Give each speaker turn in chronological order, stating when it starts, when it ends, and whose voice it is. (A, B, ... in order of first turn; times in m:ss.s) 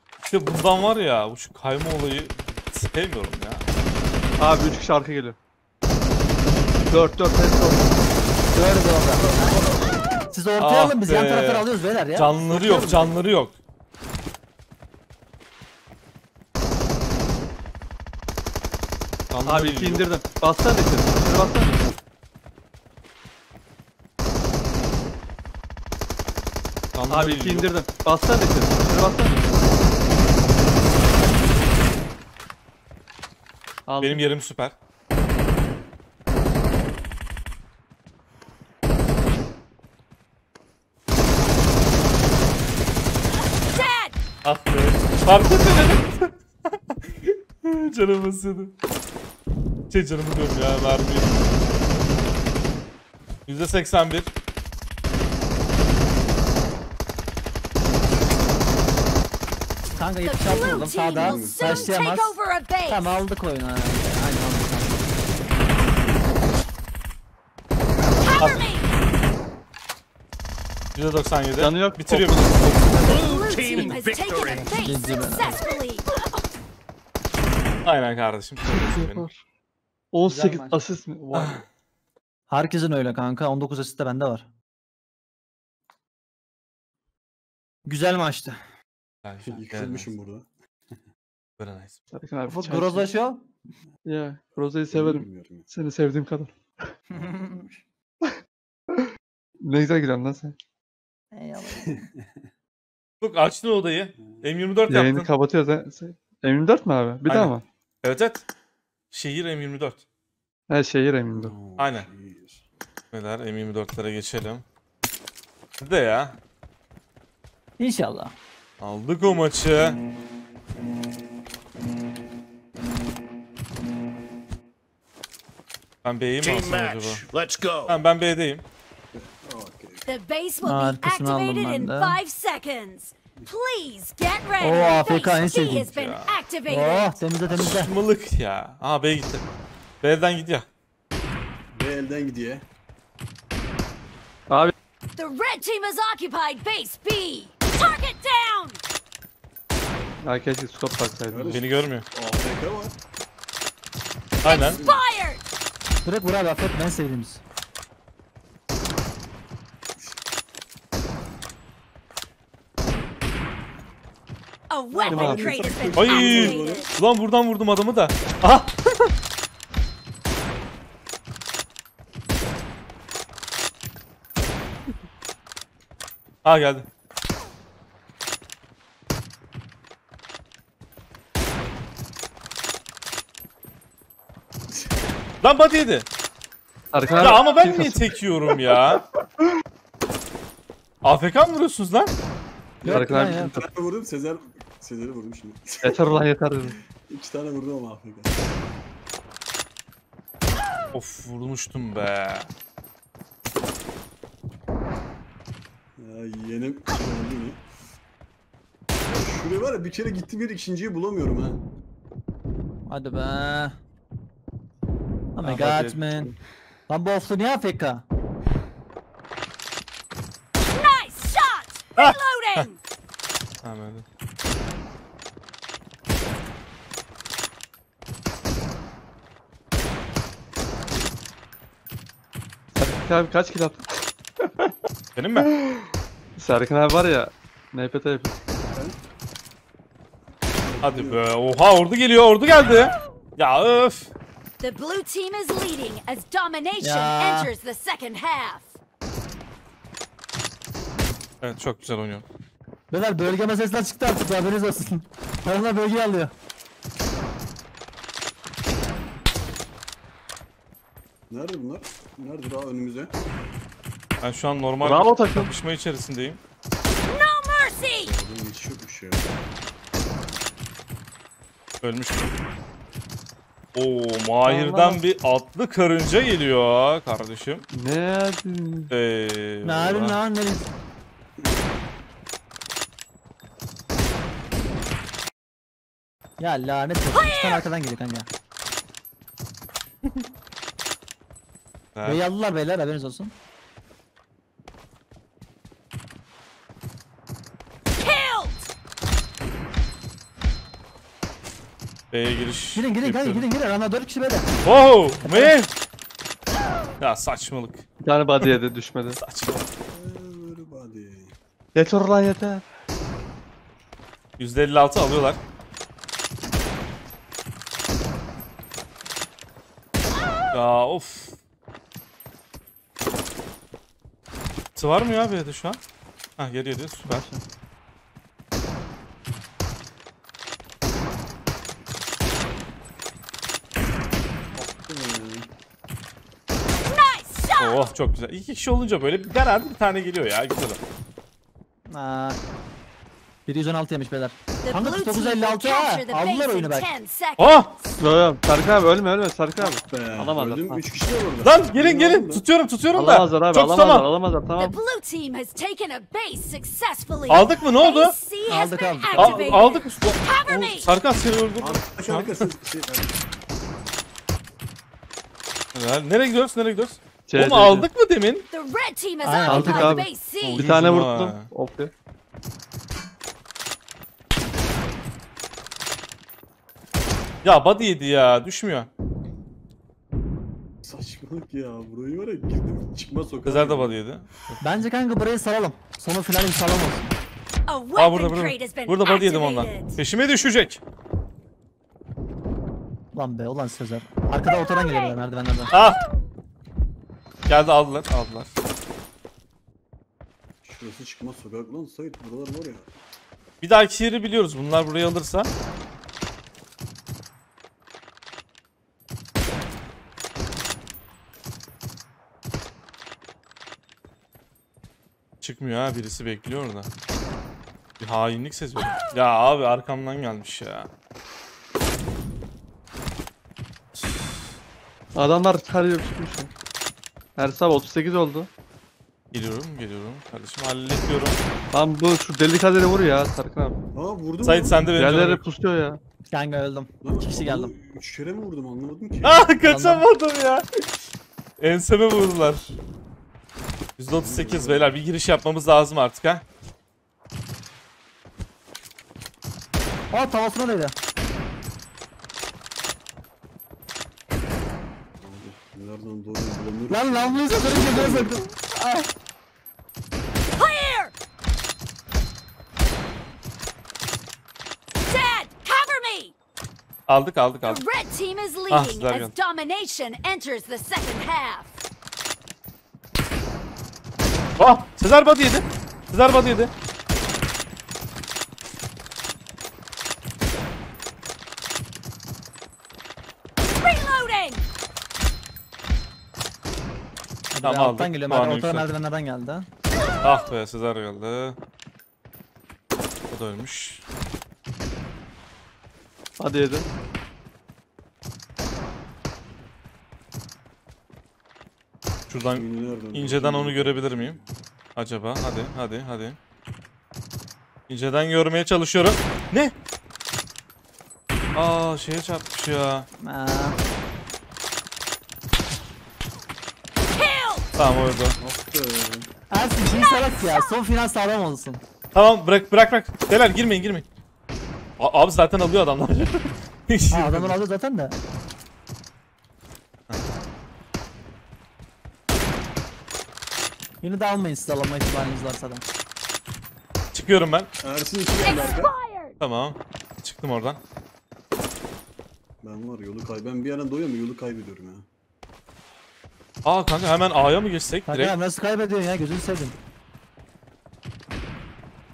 0:00.3-0:03.6 A
0:04.4-0:05.4 B
0:06.9-0:08.0 B
0:08.5-0:09.7 C
0:10.3-0:12.4 C
0:10.6-0:13.6 A
0:12.5-0:13.0 B
0:19.3-0:20.1 A
0:19.4-0:21.8 B
0:26.9-0:27.7 A
0:27.1-0:29.4 B
0:33.9-0:34.3 B
0:34.0-0:34.8 A
0:43.6-0:44.2 D
0:44.4-0:48.7 A
0:49.9-0:51.5 A
0:53.5-0:54.3 A
1:00.0-1:05.1 C
1:00.2-1:03.2 D
1:00.5-1:02.0 E
1:08.3-1:08.9 D
1:08.4-1:08.6 A
1:11.0-1:13.2 A
1:11.6-1:13.2 B
1:13.0-1:14.8 F
1:13.1-1:16.5 D
1:14.7-1:15.6 C
1:17.8-1:19.3 A
1:18.7-1:19.4 B
1:20.1-1:21.6 B
1:20.3-1:20.8 C
1:21.3-1:21.6 A
1:22.5-1:24.5 C
1:27.9-1:28.6 C
1:29.2-1:30.1 A
1:29.4-1:30.5 E
1:31.6-1:32.0 A
1:32.1-1:33.1 B
1:32.5-1:33.5 C
1:34.0-1:36.6 B
1:34.9-1:35.7 E
1:37.1-1:37.8 E
1:37.2-1:37.6 C
1:39.6-1:40.6 B
1:41.3-1:42.1 C
1:41.8-1:42.4 E
1:43.2-1:45.3 A
1:44.2-1:44.5 E
1:44.9-1:47.6 B
1:47.3-1:48.4 A
1:49.1-1:50.0 A
1:50.7-1:51.6 B
1:51.3-1:52.6 E
1:51.8-1:52.1 A
1:53.1-1:54.6 A
1:55.8-1:56.4 A
1:57.8-1:58.4 C
1:58.8-2:00.0 A
2:06.0-2:07.2 A
2:06.4-2:08.0 F
2:07.9-2:08.6 A
2:09.1-2:10.1 E
2:10.1-2:17.2 D
2:10.6-2:12.2 C
2:14.6-2:15.8 C
2:15.7-2:16.4 A
2:16.7-2:17.9 C
2:17.5-2:19.4 A
2:20.0-2:20.7 A
2:21.7-2:22.7 E
2:25.2-2:28.8 D
2:30.2-2:31.6 B
2:31.3-2:33.0 E
2:31.5-2:32.1 A
2:34.4-2:34.8 A
2:34.4-2:35.4 D
2:34.7-2:35.0 E
2:36.0-2:37.4 C
2:44.7-2:46.9 D
2:45.0-2:47.0 E
2:45.0-2:45.7 B
2:45.9-2:49.1 A
2:56.4-2:56.9 A
3:05.4-3:06.1 A
3:06.9-3:08.1 B
3:07.2-3:09.0 A
3:11.0-3:12.1 A
3:12.8-3:16.2 E
3:12.8-3:13.5 C
3:12.9-3:13.7 B
3:15.8-3:16.8 B
3:17.0-3:18.6 E
3:20.9-3:22.5 A
3:26.0-3:27.6 E
3:29.1-3:31.6 E
3:32.9-3:33.8 C
3:35.4-3:36.3 C
3:35.4-3:36.0 B
3:36.9-3:38.0 C
3:40.7-3:42.8 D
3:42.0-3:42.7 A
3:43.6-3:44.0 A
3:52.8-3:54.7 B
3:55.2-3:55.5 A
3:55.4-3:55.8 B
3:56.4-3:58.4 B
4:00.6-4:01.2 E
4:00.8-4:04.1 A
4:04.6-4:08.7 D
4:06.8-4:07.5 C
4:11.4-4:12.2 A
4:12.9-4:16.3 C
4:21.3-4:23.2 E
4:24.2-4:26.4 A
4:24.8-4:25.5 B
4:27.1-4:28.1 D
4:28.0-4:29.4 E
4:31.8-4:32.3 A
4:33.7-4:37.7 A
4:34.5-4:34.9 C
4:34.5-4:35.0 B
4:37.7-4:38.9 B
4:38.9-4:40.2 A
4:39.6-4:40.7 C
4:46.4-4:48.3 C
4:52.0-4:52.2 A
4:52.0-4:53.3 C
4:58.0-4:58.7 D
5:02.1-5:03.4 A
5:02.7-5:04.5 C
5:04.6-5:05.7 A
5:05.2-5:05.5 C
5:07.0-5:07.9 A
5:08.0-5:09.2 B
5:09.1-5:09.6 A
5:09.9-5:11.4 E
5:11.8-5:12.6 B
5:14.4-5:15.4 A
5:20.5-5:21.3 A
5:24.8-5:25.8 A
5:26.4-5:27.2 A
5:27.1-5:27.4 C
5:34.5-5:35.5 E
5:36.8-5:37.9 D
5:37.6-5:40.8 A
5:41.9-5:42.4 C
5:43.5-5:46.9 C
5:44.6-5:47.9 D
5:47.4-5:47.7 A
5:48.0-5:50.8 B
5:49.6-5:52.4 E
5:51.4-5:54.1 A
5:52.9-5:54.8 B
5:54.6-6:00.9 D
5:57.3-5:58.1 A
5:58.5-5:59.6 C
5:59.2-6:02.3 A
6:01.6-6:03.2 E
6:05.7-6:08.5 A
6:07.3-6:07.9 B
6:08.5-6:10.6 D
6:09.2-6:10.0 C
6:09.4-6:11.9 B
6:10.4-6:11.5 A
6:17.4-6:18.9 A
6:20.8-6:24.0 E
6:23.4-6:24.8 A
6:24.6-6:27.1 C
6:27.7-6:30.0 D
6:28.0-6:30.8 A
6:33.1-6:35.7 C
6:35.7-6:36.0 A
6:37.5-6:38.5 A
6:40.6-6:42.9 E
6:43.6-6:45.5 A
6:55.4-6:56.9 A
6:58.0-7:00.9 A
7:04.0-7:04.4 A
7:05.2-7:06.5 B
7:07.4-7:08.5 B
7:09.3-7:11.4 A
7:11.7-7:13.8 B
7:14.0-7:14.8 E
7:14.4-7:15.4 A
7:15.0-7:16.0 B
7:16.3-7:17.7 C
7:17.0-7:19.5 E
7:19.2-7:20.6 A
7:19.6-7:20.0 C
7:21.6-7:22.8 A
7:24.0-7:26.4 A
7:24.2-7:25.0 E
7:30.1-7:31.0 C
7:35.2-7:38.4 E
7:36.9-7:39.1 C
7:40.6-7:41.1 D
7:45.0-7:46.3 D
7:47.1-7:47.8 A
7:47.6-7:51.7 D
7:48.7-7:49.3 A
7:54.6-7:56.7 A
8:03.8-8:04.7 D
8:07.5-8:09.7 C
8:07.6-8:08.9 A
8:10.2-8:11.6 A
8:13.3-8:14.0 A
8:16.4-8:16.8 B
8:22.3-8:24.4 A
8:22.3-8:24.5 E
8:25.0-8:26.4 A
8:27.9-8:29.7 A
8:31.6-8:33.1 A
8:33.2-8:33.8 C
8:37.2-8:37.7 D
8:37.8-8:38.4 A
8:38.4-8:39.3 E
8:39.5-8:41.8 C
8:42.1-8:44.0 A
8:45.0-8:47.6 A
8:47.1-8:48.2 C
8:54.0-8:55.8 C
8:57.1-8:57.7 A
8:57.8-8:58.9 E
8:58.4-8:59.4 D
8:59.4-9:00.8 A
9:02.6-9:05.1 E
9:06.6-9:08.4 A
9:08.1-9:09.8 C